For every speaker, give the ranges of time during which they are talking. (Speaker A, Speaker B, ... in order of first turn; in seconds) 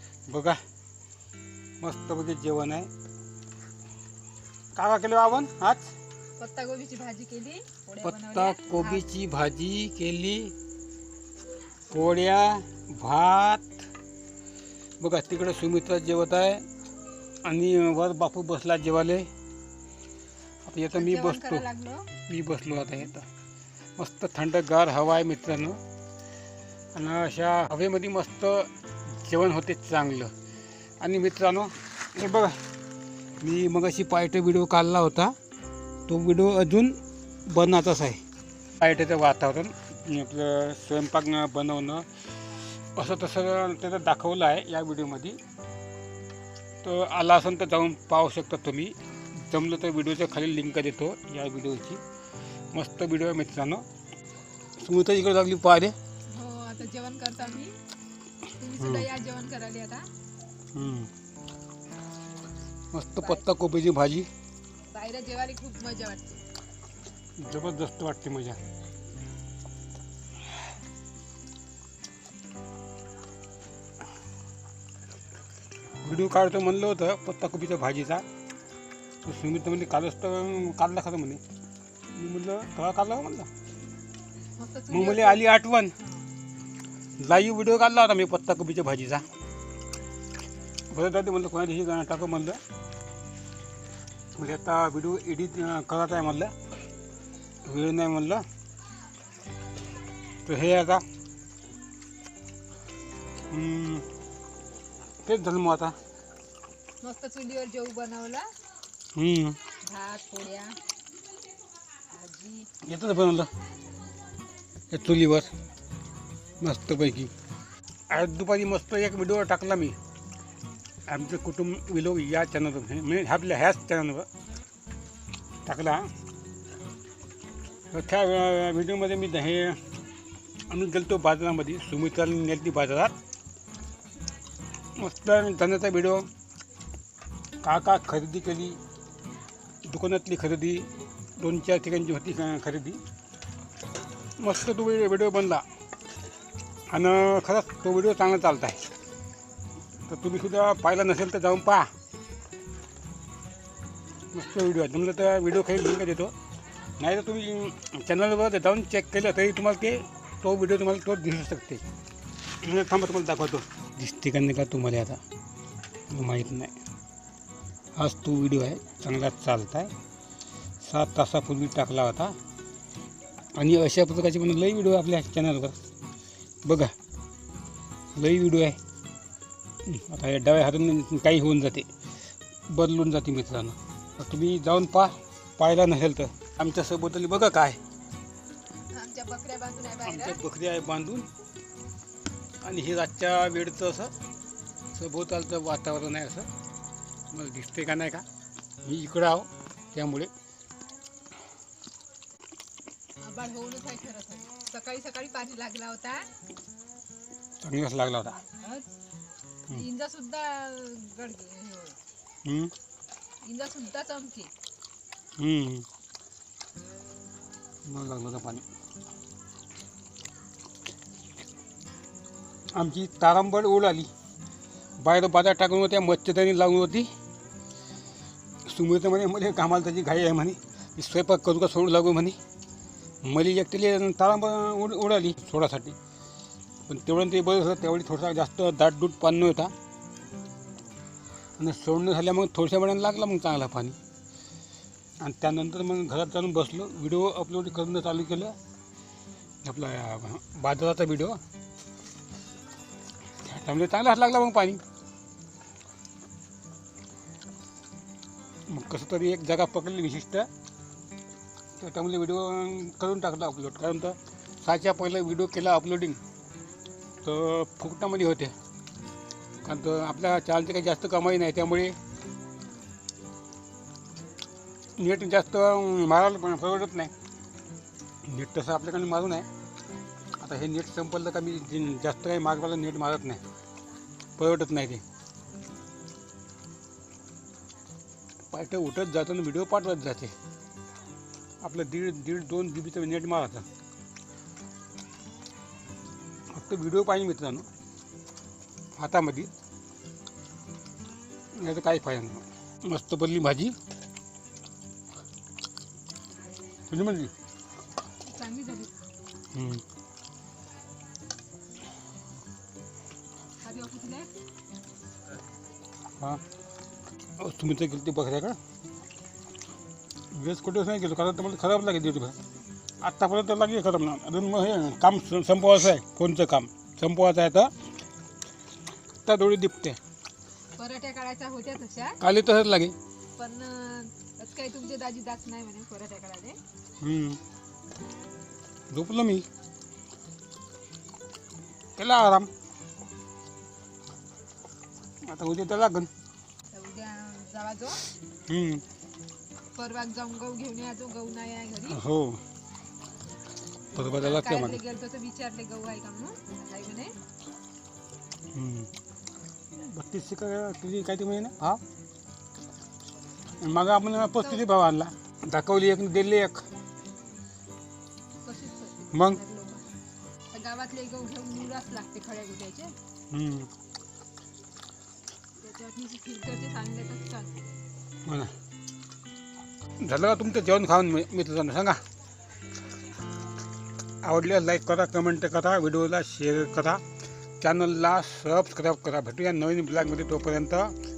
Speaker A: 0.3-0.6, 1.8-2.9, 4.8-5.9, 8.0-10.5, 11.9-13.8, 15.0-16.6, 17.4-19.3, 20.6-21.7, 22.3-23.3, 24.0-25.8, 26.9-30.3, 31.0-32.6, 33.4-35.4, 36.1-38.2, 38.8-42.1, 43.0-45.4, 46.8-49.0, 49.5-52.0, 52.7-53.9, 54.8-56.0, 58.8-59.1, 60.7-61.1, 62.9-64.3, 67.4-68.6, 76.0-78.2, 79.2-81.4, 82.1-83.5, 84.9-85.9, 87.2-89.2, 90.9-92.6, 94.4-96.5, 97.7-98.4, 100.5-101.0, 103.5-104.1, 105.2-105.9, 109.2-109.6, 112.8-113.5, 114.9-115.5, 116.6-117.3, 118.1-120.0, 121.1-124.3, 125.7-126.1, 127.9-129.8, 130.7-133.2, 135.0-136.3, 137.6-138.8, 139.8-143.0, 144.4-145.6, 146.9-148.8, 150.1-151.9, 154.3-156.3, 157.0-161.8, 162.6-165.2, 166.1-166.7, 168.0-169.9, 170.8-172.4, 173.6-175.8, 176.7-176.9, 178.2-178.8, 179.9-181.9, 182.7-187.8, 190.1-191.3, 192.6-194.1, 194.9-196.5, 197.3-198.2, 198.8-200.3, 207.6-208.4, 212.4-212.7, 215.4-215.9, 217.9-218.6, 222.8-224.1, 225.0-227.1, 228.7-232.4, 233.2-236.0, 236.9-239.7, 241.6-244.0, 245.2-248.6, 249.6-251.4, 253.4-254.8, 258.7-260.5, 261.8-266.2, 267.2-268.5, 269.6-272.0, 275.0-277.1, 278.2-279.5, 280.4-283.4, 284.4-285.0, 288.5-290.3, 291.6-293.6, 296.5-297.7, 299.0-299.5, 301.6-303.8, 306.9-307.3, 309.5-309.8, 317.4-318.6, 320.3-322.4, 323.0-327.7, 329.2-330.0, 332.2-332.9, 337.0-337.4, 338.9-339.5, 342.0-342.5, 345.3-346.1, 348.5-348.8, 351.9-352.4, 353.9-354.8, 358.5-358.9, 359.8-361.8, 363.6-366.6, 369.1-369.4, 373.3-373.7, 378.3-378.5, 380.0-382.0, 384.2-387.0, 387.6-390.9
Speaker B: 6.4-9.0, 20.9-22.1, 56.3-57.8, 58.6-60.1, 64.9-66.4, 84.6-85.5, 107.0-108.5, 109.9-110.8, 112.1-112.7, 188.9-190.4, 203.2-206.3, 208.6-208.8, 209.7-212.0, 213.4-214.5, 308.2-308.9, 313.6-314.3, 330.8-332.2, 333.4-336.6, 346.7-348.1, 349.8-352.0, 354.1-357.1, 368.4-369.9, 370.5-372.9, 375.6-377.9